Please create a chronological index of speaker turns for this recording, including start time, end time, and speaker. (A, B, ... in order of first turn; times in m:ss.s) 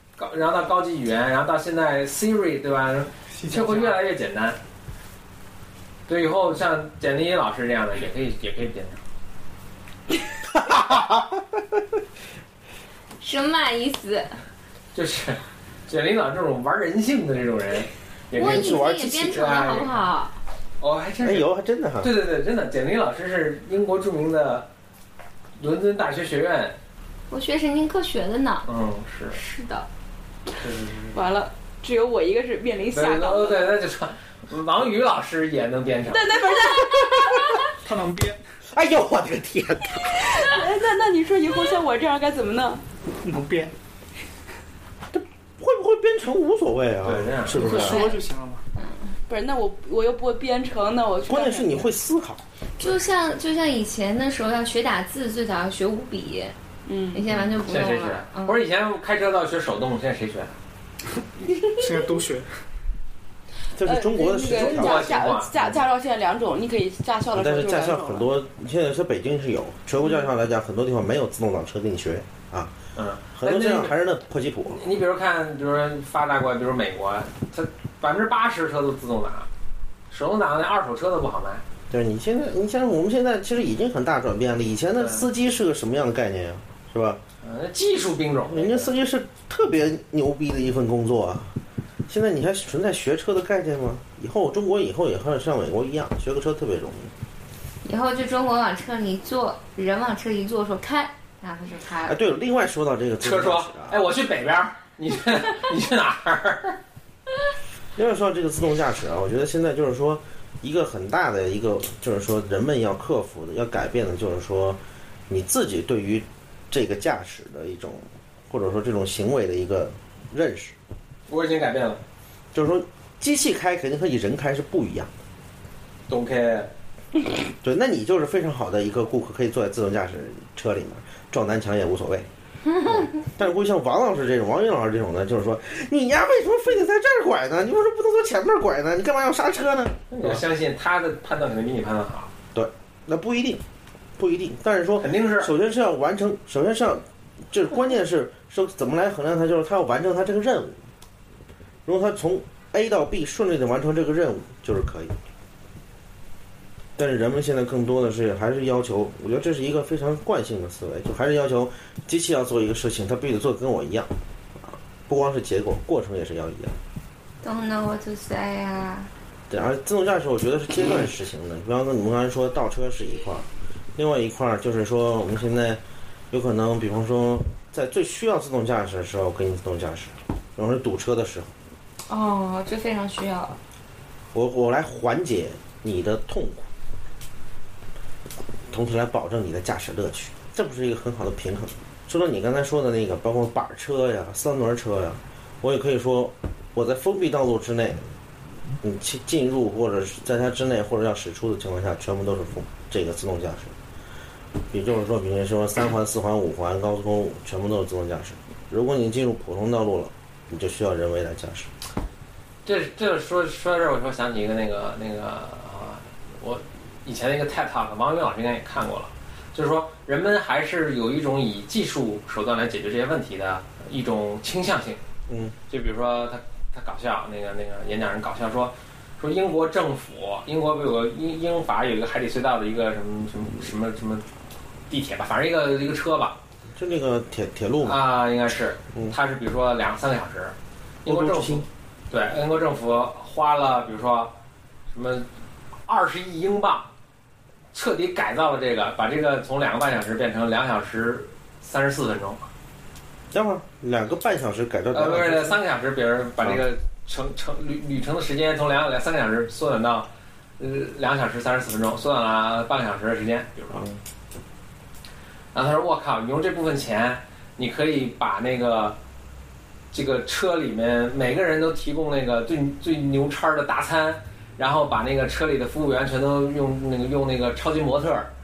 0:00.2-0:04.6 A
0:03.3-0:04.0 B
0:06.1-0:09.0 A
0:10.4-0:11.8 C
0:13.2-0:14.4 D
0:15.0-0:20.0 A
0:18.4-0:20.4 D
0:18.4-0:19.0 C
0:20.8-0:21.5 A
0:21.2-0:22.1 C
0:22.0-0:24.7 A
0:25.6-0:26.8 A
0:27.3-0:28.7 D
0:28.6-0:29.4 A
0:29.3-0:29.9 D
0:30.6-0:31.2 A
0:31.1-0:33.8 E
0:32.9-0:36.4 A
0:36.1-0:37.5 E
0:37.8-0:38.4 B
0:38.7-0:40.4 C
0:40.4-0:42.8 E
0:43.2-0:43.8 B
0:45.1-0:48.2 C
0:47.0-0:47.9 A
0:47.6-0:48.6 B
0:47.8-0:48.0 D
0:48.8-0:49.2 D
0:49.3-0:51.8 E
0:51.3-0:52.4 C
0:52.8-0:56.6 D
0:56.8-0:57.2 E
0:57.1-0:58.6 D
0:57.4-1:00.6 A
1:01.8-1:02.5 B
1:03.8-1:05.8 C
1:03.8-1:08.3 E
1:04.5-1:05.5 A
1:07.3-1:12.7 C
1:13.0-1:13.9 A
1:13.3-1:14.8 C
1:14.7-1:19.5 A
1:20.1-1:21.6 A
1:21.9-1:27.2 C
1:25.0-1:25.3 A
1:27.4-1:28.9 A
1:28.4-1:37.1 C
1:37.8-1:42.2 D
1:42.0-1:44.0 C
1:43.2-1:46.8 A
1:48.0-2:00.8 C
2:01.3-2:02.0 A
2:02.5-2:05.1 C
2:06.1-2:06.7 A
2:07.6-2:20.4 C
2:20.1-2:22.3 A
2:22.5-2:23.6 C
2:24.2-2:30.8 C
2:25.0-2:25.5 A
2:31.9-2:35.2 C
2:37.0-2:46.8 C
2:47.4-2:49.1 D
2:49.5-3:01.5 C
3:02.1-3:03.6 D
3:04.3-3:06.7 C
3:08.7-3:18.1 C
3:18.8-3:23.7 C
3:24.7-3:31.7 C
3:32.6-3:45.0 A
3:45.3-3:45.6 C
3:45.7-3:54.2 A
3:54.9-3:56.4 A
3:56.7-3:58.0 C
3:57.8-4:04.3 A
4:01.1-4:01.6 C
4:04.9-4:05.3 A
4:05.9-4:06.9 A
4:07.7-4:12.5 A
4:13.3-4:15.6 C
4:14.9-4:23.9 A
4:23.7-4:24.0 C
4:25.5-4:29.0 A
4:29.9-4:38.3 A